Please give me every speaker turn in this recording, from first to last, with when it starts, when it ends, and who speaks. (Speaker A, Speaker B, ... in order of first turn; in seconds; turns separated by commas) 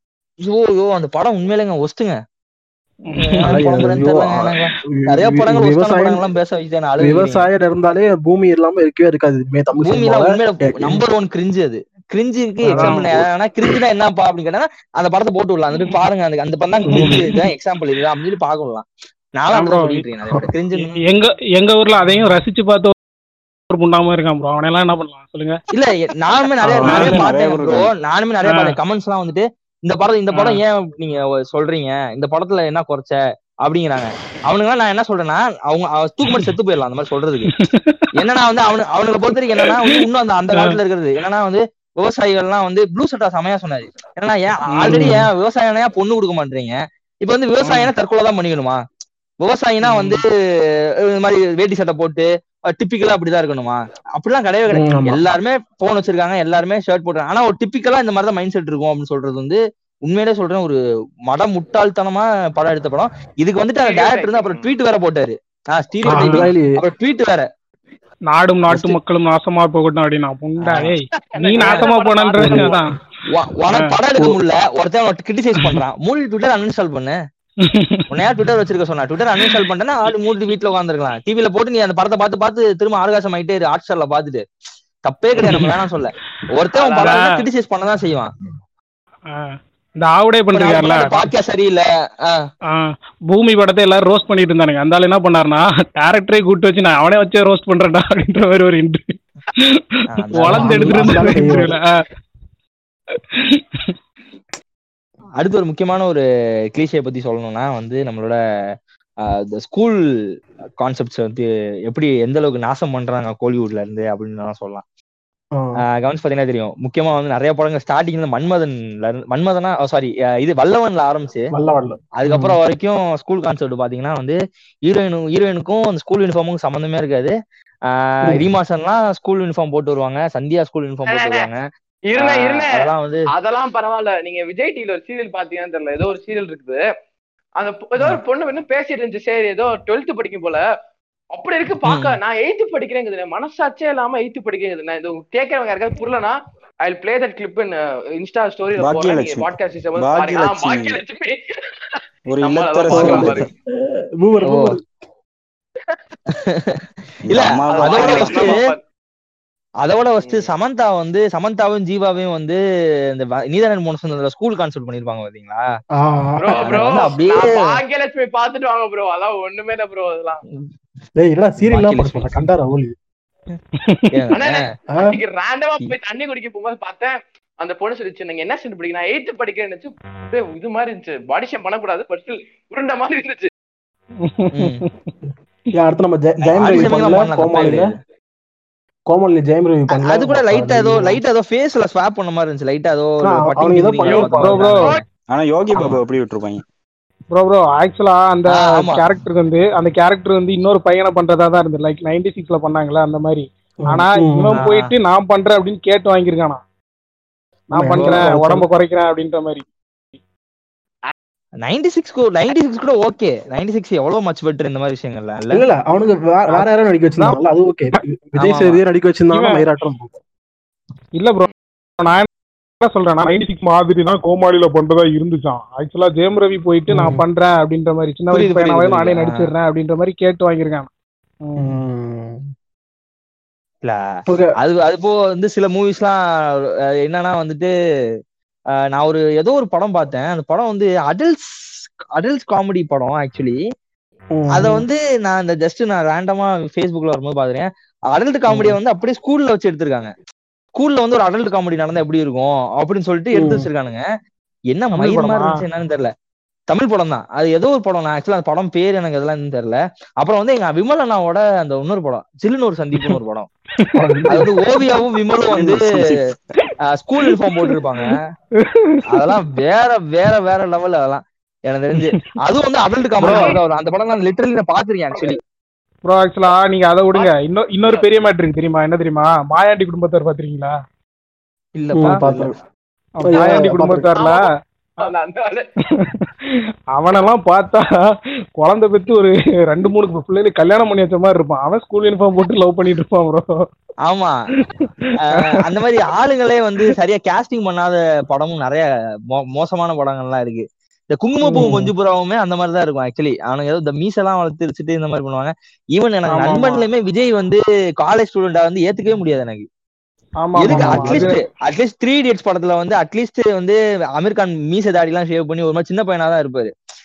Speaker A: 0.4-2.2, Speaker B: 3.1-3.6, Speaker A: 3.2-7.5, Speaker C: 3.4-6.2, Speaker C: 7.0-11.0, Speaker A: 9.8-18.9, Speaker C: 12.7-13.1, Speaker B: 12.8-13.1, Speaker C: 16.9-17.3, Speaker A: 19.4-21.0, Speaker B: 19.5-20.0, Speaker B: 21.0-22.9, Speaker B: 23.7-25.6, Speaker A: 25.7-37.5, Speaker C: 26.6-27.1, Speaker D: 26.8-27.9, Speaker B: 26.9-27.2, Speaker B: 28.4-28.8, Speaker B: 30.3-30.6, Speaker B: 37.5-38.1, Speaker A: 38.2-48.8, Speaker B: 39.6-40.8, Speaker B: 44.7-45.1, Speaker C: 44.9-45.2, Speaker A: 49.4-50.2, Speaker A: 51.1-60.8, Speaker C: 54.7-55.2, Speaker A: 61.3-67.5, Speaker E: 63.8-64.7, Speaker C: 66.1-66.7, Speaker B: 66.1-66.5, Speaker B: 68.3-72.9, Speaker A: 70.6-71.0, Speaker E: 71.2-72.8, Speaker A: 71.6-71.9, Speaker C: 72.4-72.7, Speaker A: 73.3-77.2, Speaker B: 77.7-78.0, Speaker A: 78.1-84.5, Speaker A: 85.1-88.3, Speaker B: 85.4-85.8, Speaker E: 86.8-87.1, Speaker B: 87.0-87.4, Speaker B: 89.3-91.3, Speaker A: 90.5-92.4, Speaker B: 92.7-101.9, Speaker A: 100.2-101.4, Speaker C: 100.5-101.8, Speaker A: 105.4-106.2, Speaker A: 106.7-108.4, Speaker A: 109.2-110.0, Speaker A: 110.8-114.8, Speaker A: 116.0-121.5, Speaker C: 121.5-122.6, Speaker A: 122.2-127.3, Speaker A: 127.9-133.2, Speaker E: 131.1-131.5, Speaker E: 132.1-132.7, Speaker E: 133.3-136.8, Speaker E: 137.6-140.6, Speaker E: 141.3-146.3, Speaker A: 141.9-142.2, Speaker E: 146.8-151.4, Speaker D: 148.8-151.0, Speaker E: 151.9-153.5, Speaker D: 152.3-153.5, Speaker C: 152.9-153.3, Speaker C: 154.2-154.8, Speaker A: 154.4-154.7, Speaker A: 156.3-158.7, Speaker D: 157.3-158.6, Speaker E: 157.7-158.8, Speaker A: 159.8-162.6, Speaker E: 160.2-160.5, Speaker A: 163.1-165.6, Speaker C: 166.0-166.9, Speaker E: 166.4-170.4, Speaker A: 166.5-167.5, Speaker C: 171.2-172.9, Speaker A: 171.6-172.3, Speaker A: 174.1-174.6, Speaker E: 174.3-183.5, Speaker B: 184.2-184.9, Speaker A: 184.6-184.8, Speaker C: 185.7-187.9, Speaker A: 186.4-187.9, Speaker C: 189.1-191.2, Speaker A: 190.0-195.0, Speaker C: 193.2-194.7, Speaker B: 194.1-194.9, Speaker D: 195.3-196.6, Speaker A: 195.7-196.0, Speaker B: 197.3-206.6, Speaker A: 198.6-199.1, Speaker C: 203.9-204.6, Speaker A: 204.5-204.9, Speaker C: 207.7-208.7, Speaker B: 207.8-209.6, Speaker A: 207.9-208.3, Speaker A: 211.7-215.6, Speaker C: 215.5-220.2, Speaker A: 218.4-218.8, Speaker B: 219.3-219.6, Speaker B: 221.2-221.5, Speaker B: 222.0-222.3, Speaker B: 222.8-230.9, Speaker C: 226.9-227.2, Speaker A: 228.3-229.5, Speaker C: 231.6-232.5, Speaker C: 234.3-234.5, Speaker A: 234.6-236.2, Speaker A: 237.1-237.7, Speaker A: 238.9-243.6, Speaker C: 244.3-244.8, Speaker A: 244.5-250.1, Speaker C: 248.5-248.8, Speaker A: 250.8-254.0, Speaker C: 253.4-253.7, Speaker A: 254.7-256.1, Speaker B: 255.0-255.6, Speaker A: 256.7-263.5, Speaker C: 263.9-264.5, Speaker A: 264.3-265.9, Speaker D: 265.5-266.4, Speaker A: 267.0-268.2, Speaker B: 267.3-267.8, Speaker B: 268.9-269.3, Speaker A: 269.1-275.4, Speaker B: 272.0-272.3, Speaker C: 273.2-273.5, Speaker E: 273.3-273.6, Speaker B: 276.1-280.7, Speaker E: 277.1-278.1, Speaker A: 281.8-282.5, Speaker C: 282.0-282.5, Speaker B: 283.2-284.4, Speaker C: 283.2-284.1, Speaker E: 284.1-284.4, Speaker E: 285.0-285.6, Speaker B: 286.0-286.3, Speaker B: 287.0-287.9, Speaker B: 288.6-293.5, Speaker A: 294.1-294.4, Speaker B: 294.8-295.2, Speaker A: 295.3-309.6, Speaker C: 301.5-301.9, Speaker B: 306.3-306.9, Speaker B: 310.4-311.4, Speaker A: 310.6-316.7, Speaker C: 310.7-311.3